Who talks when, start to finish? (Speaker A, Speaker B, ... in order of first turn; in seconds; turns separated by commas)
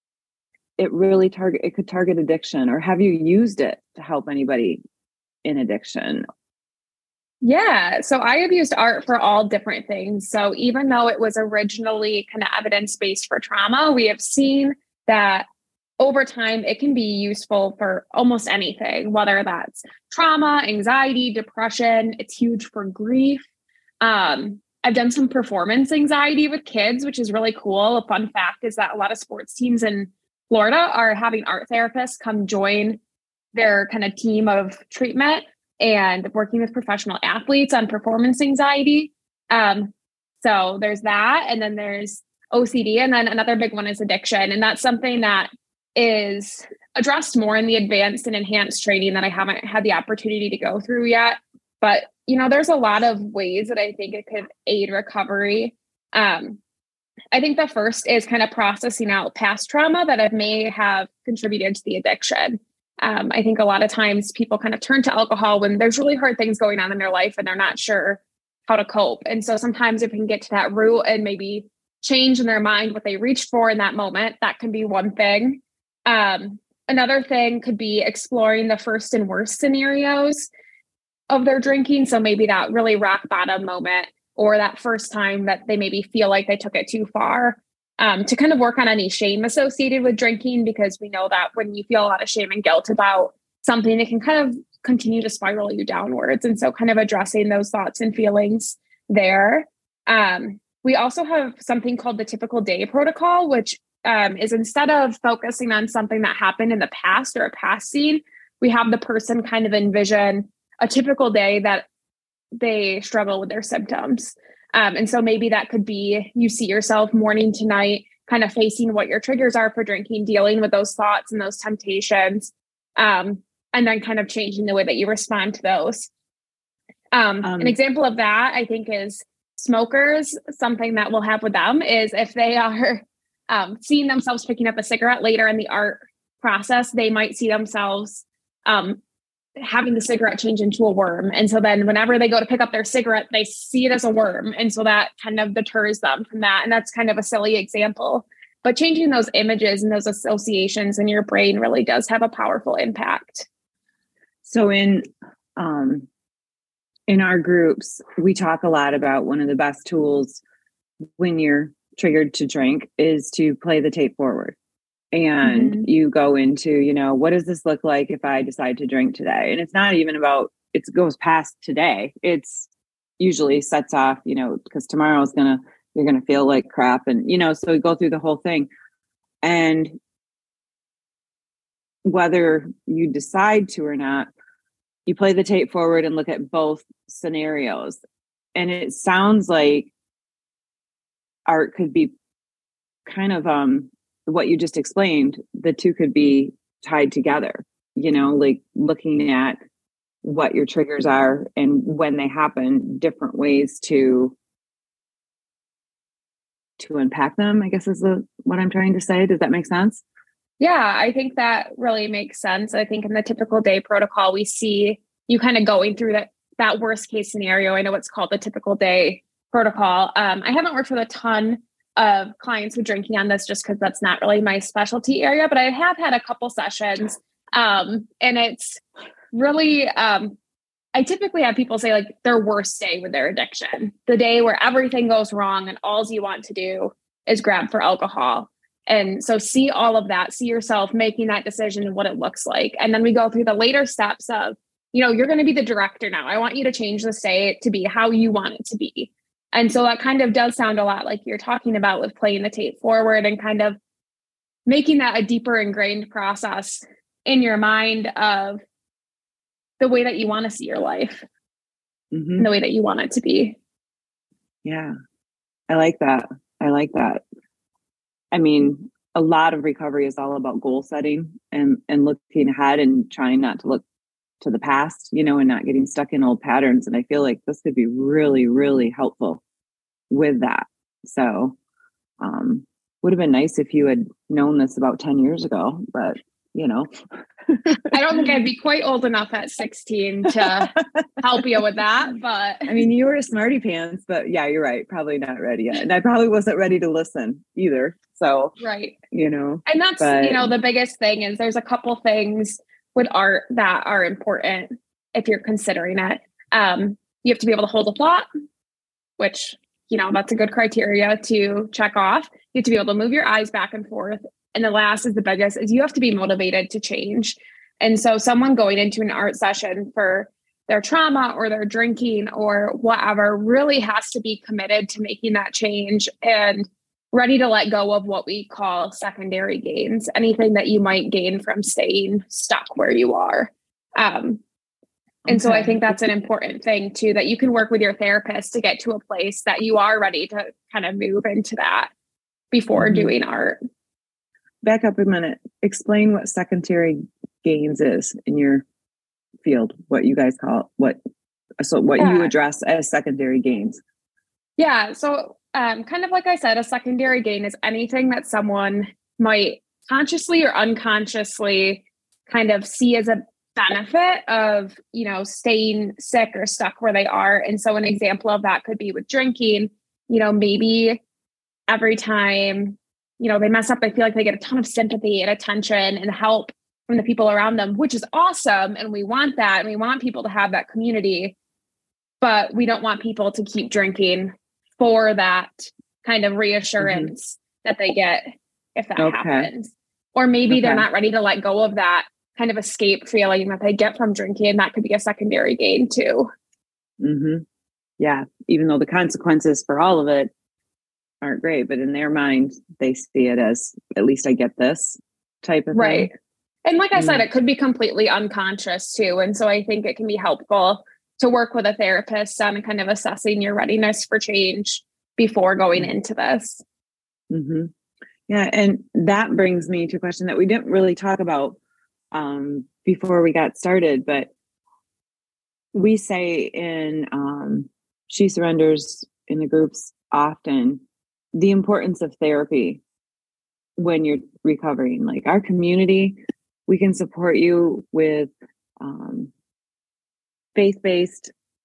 Speaker A: 0.8-4.8, Speaker A: 5.4-6.2, Speaker B: 7.4-15.5, Speaker B: 16.0-23.4, Speaker B: 24.0-33.0, Speaker B: 33.5-56.6, Speaker B: 57.3-80.5, Speaker B: 81.3-111.8, Speaker B: 112.5-126.1, Speaker B: 127.1-139.0, Speaker A: 127.4-127.8, Speaker B: 139.6-153.5, Speaker A: 154.4-155.0, Speaker A: 155.6-156.1, Speaker A: 157.1-160.4, Speaker A: 161.2-164.6, Speaker A: 165.1-178.7, Speaker B: 165.4-165.9, Speaker A: 179.4-179.9, Speaker A: 182.1-184.3, Speaker A: 185.1-188.0, Speaker A: 188.6-189.9, Speaker A: 191.5-192.1, Speaker A: 193.1-199.6, Speaker A: 200.2-204.3, Speaker A: 206.8-210.0, Speaker B: 210.6-228.8, Speaker B: 229.3-230.3, Speaker B: 230.9-253.8, Speaker B: 254.7-258.6, Speaker B: 259.8-261.2, Speaker A: 262.1-262.5, Speaker B: 262.4-263.6, Speaker A: 264.6-264.9, Speaker A: 265.7-267.2, Speaker A: 268.3-273.8, Speaker A: 274.4-279.4, Speaker A: 280.1-281.6, Speaker A: 282.2-286.9, Speaker A: 287.5-287.8, Speaker B: 287.9-292.7, Speaker A: 292.6-298.5, Speaker B: 298.6-298.9, Speaker A: 299.1-300.5, Speaker B: 299.6-308.2, Speaker B: 309.2-334.4, Speaker A: 335.3-336.0, Speaker B: 335.3-341.9, Speaker B: 342.5-343.6, Speaker A: 342.8-343.1, Speaker A: 344.6-348.6, Speaker A: 349.4-351.0, Speaker A: 351.6-353.8, Speaker B: 352.0-352.3, Speaker B: 354.6-371.0, Speaker B: 371.7-381.3, Speaker B: 382.2-388.2, Speaker A: 386.8-387.1, Speaker B: 388.8-396.3, Speaker A: 389.0-389.5, Speaker A: 390.5-390.9, Speaker A: 397.0-397.4, Speaker A: 398.0-400.3, Speaker A: 401.2-406.1, Speaker B: 405.7-406.1, Speaker B: 406.6-416.6, Speaker A: 406.9-407.2, Speaker A: 417.3-417.7, Speaker A: 418.3-421.6, Speaker A: 422.1-424.3, Speaker A: 425.7-430.8, Speaker A: 431.3-432.8, Speaker A: 433.8-439.3, Speaker A: 440.5-441.3